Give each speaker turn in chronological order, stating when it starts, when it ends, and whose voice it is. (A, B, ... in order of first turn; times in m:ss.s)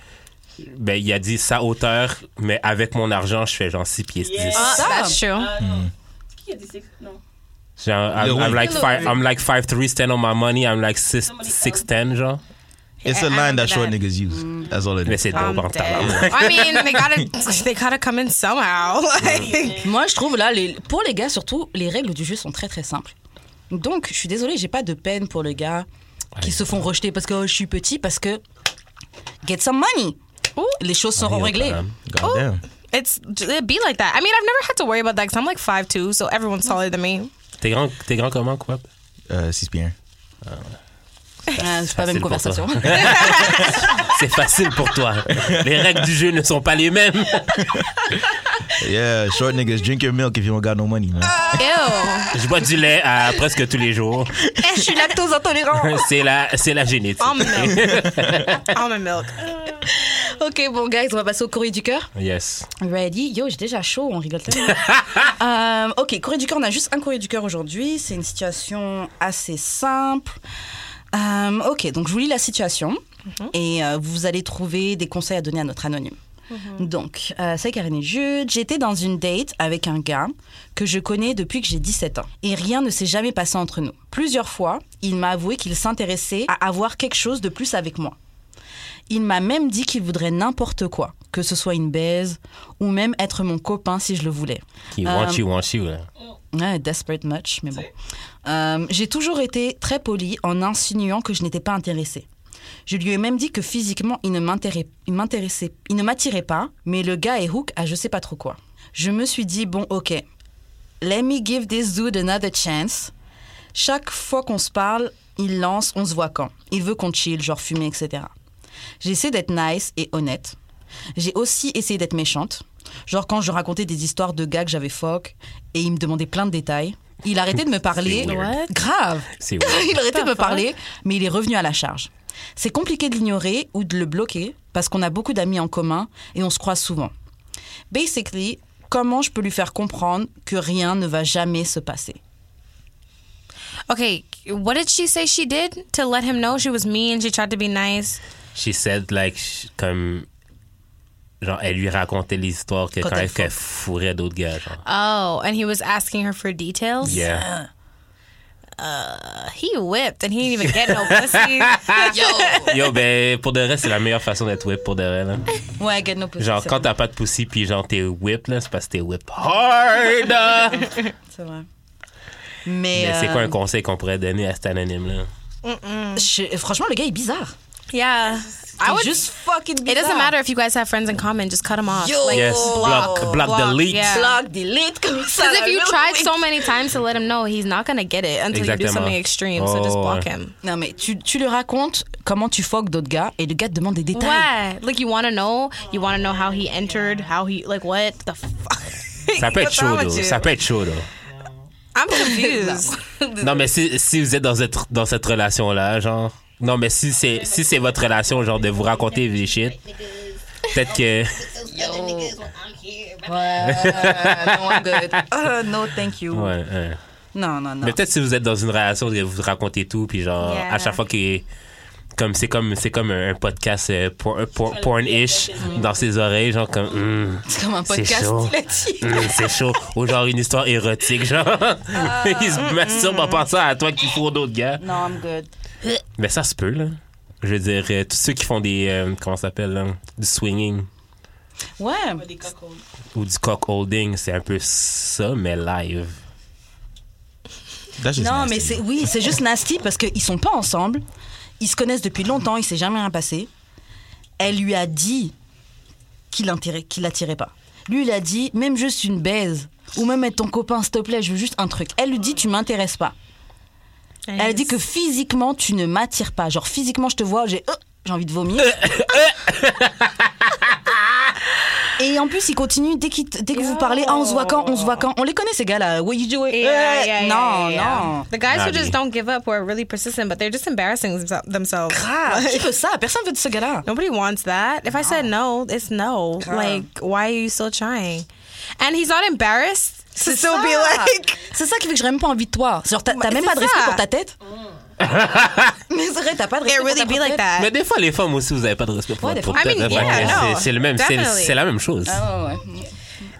0:00.6-0:04.8 A
0:04.2-0:07.2 B
0:04.5-0:05.6 C
0:04.6-0:05.2 D
0:05.6-0:05.9 E
0:07.8-0:12.4 A
0:08.2-0:08.8 E
0:08.6-0:09.2 C
0:08.8-0:09.2 B
0:11.2-0:11.9 B
0:13.0-0:14.0 C
0:13.0-0:16.3 E
0:14.3-0:14.8 D
0:15.1-0:17.0 A
0:15.4-0:19.9 C
0:18.8-0:19.9 B
0:19.8-0:23.1 D
0:23.7-0:25.9 D
0:26.4-0:26.8 A
0:26.4-0:28.4 D
0:29.4-0:31.8 D
0:31.2-0:32.0 A
0:32.1-0:32.6 E
0:32.2-0:37.3 C
0:37.6-0:38.9 A
0:39.3-0:40.0 E
0:40.4-0:40.8 A
0:41.5-0:43.6 D
0:41.6-0:47.6 A
0:43.1-0:43.7 C
0:48.7-0:51.5 E
0:51.4-0:52.1 D
0:51.6-0:52.3 C
0:52.3-0:54.4 A
0:54.6-0:56.1 D
0:55.8-0:58.5 A
0:57.2-0:59.5 C
0:59.8-1:02.1 D
1:02.2-1:02.7 A
1:02.8-1:10.4 D
1:04.7-1:05.2 A
1:11.1-1:13.0 D
1:13.5-1:16.2 D
1:16.5-1:16.9 C
1:16.8-1:28.2 D
1:29.1-1:35.4 D
1:34.9-1:36.1 A
1:36.5-1:37.9 D
1:38.4-1:42.2 D
1:42.9-1:50.2 D
1:51.0-1:53.1 D
1:53.8-1:58.3 D
1:59.0-2:00.6 D
2:01.2-2:17.1 D
2:08.0-2:08.6 A
2:08.2-2:08.7 C
2:09.4-2:10.0 A
2:10.1-2:10.7 C
2:17.9-2:22.2 D
2:23.9-2:28.2 C
2:28.6-2:30.3 A
2:31.4-2:34.8 A
2:33.0-2:33.5 D
2:34.8-2:37.2 C
2:37.0-2:37.7 D
2:37.0-2:37.5 A
2:38.8-2:42.9 C
2:40.6-2:45.5 A
2:42.1-2:42.7 D
2:45.8-2:46.9 D
2:46.4-2:50.9 A
2:50.8-2:51.1 C
2:51.3-2:51.7 D
2:52.6-2:53.6 D
2:52.9-2:55.3 A
2:55.6-2:56.3 C
2:56.2-2:57.5 D
2:57.9-2:59.3 C
2:58.3-2:58.8 B
2:58.8-3:00.4 D
2:59.9-3:04.4 C
3:01.9-3:06.7 D
3:02.3-3:04.2 A
3:05.4-3:10.6 C
3:08.5-3:10.3 A
3:10.6-3:14.5 D
3:14.1-3:20.5 C
3:15.8-3:17.4 B
3:19.4-3:21.1 A
3:21.2-3:21.7 B
3:21.9-3:23.5 C
3:22.1-3:22.9 D
3:23.4-3:29.8 A
3:27.2-3:30.4 B
3:30.7-3:31.5 A
3:31.3-3:34.0 B
3:31.7-3:32.3 D
3:33.2-3:36.5 D
3:33.6-3:35.2 A
3:36.3-3:37.0 A
3:37.3-3:38.0 D
3:37.8-3:41.4 A
3:40.4-3:41.0 C
3:42.2-3:54.8 A
3:44.6-3:46.2 B
3:47.5-3:49.6 D
3:51.9-3:52.7 D
3:52.6-3:53.4 C
3:54.8-3:55.5 D
3:56.2-4:00.9 A
4:01.8-4:02.3 D
4:02.1-4:02.8 B
4:03.1-4:06.2 A
4:08.0-4:08.9 E
4:08.2-4:11.0 D
4:11.6-4:13.5 D
4:14.4-4:15.3 D
4:16.3-4:23.2 D
4:24.3-4:24.7 C
4:24.4-4:29.0 D
4:28.6-4:30.9 A
4:32.0-4:38.3 D
4:33.5-4:35.0 C
4:36.5-4:42.7 C
4:38.5-4:39.0 A
4:41.9-4:43.9 D
4:43.9-4:48.3 C
4:44.9-4:45.3 D
4:46.4-4:46.9 D
4:48.8-4:51.4 C
4:50.2-4:54.3 D
4:53.1-4:54.0 C
4:54.5-4:54.8 B
4:55.0-4:55.8 A
4:55.9-4:57.5 D
4:56.7-4:57.7 C
4:57.6-5:02.2 A
4:59.2-5:00.5 D
4:59.5-5:01.6 C
5:02.1-5:03.3 D